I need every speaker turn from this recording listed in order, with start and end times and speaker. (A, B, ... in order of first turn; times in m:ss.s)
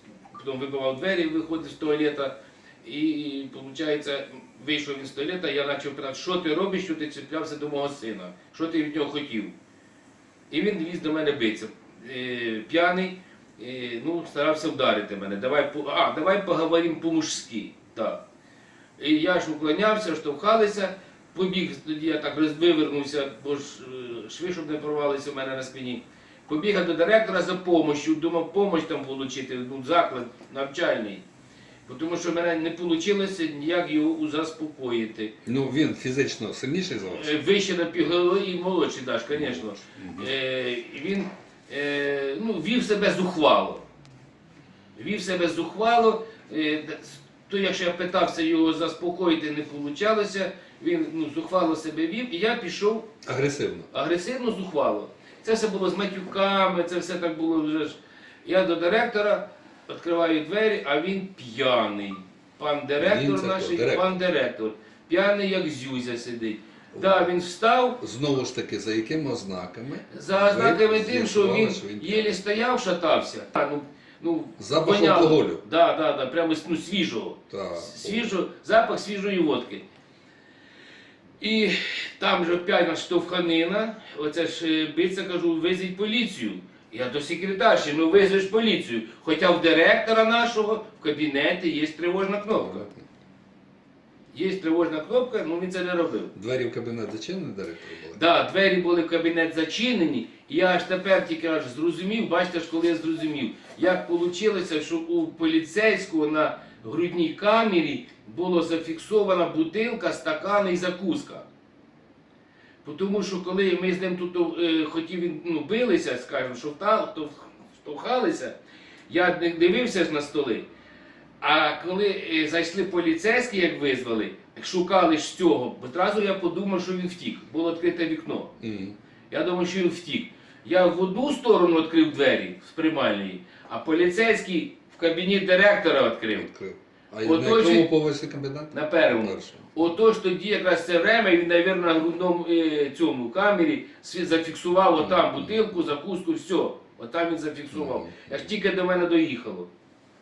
0:00.3-0:02.3 A
0:02.8-0:09.5 A
0:10.5-0:18.2 A
0:19.0-0:31.2 A
0:31.9-0:35.3 A
0:35.5-0:37.4 B
0:37.1-0:43.8 A
0:39.3-0:40.3 B
0:45.0-0:53.1 A
0:53.2-0:53.9 B
0:53.9-1:08.0 A
1:03.0-1:04.1 B
1:06.9-1:07.3 B
1:08.0-1:12.4 B
1:10.1-1:19.8 A
1:14.6-1:15.6 B
1:17.5-1:18.3 B
1:21.4-1:32.9 A
1:32.6-1:33.0 B
1:34.3-1:36.3 A
1:36.4-1:38.2 B
1:38.1-1:51.5 A
1:52.8-1:58.6 A
1:59.1-2:00.7 A
2:01.4-2:08.5 A
2:08.6-2:09.0 B
2:09.3-2:16.5 A
2:16.4-2:19.8 B
2:17.2-2:17.8 A
2:18.7-2:29.7 A
2:25.0-2:25.7 B
2:27.7-2:28.1 B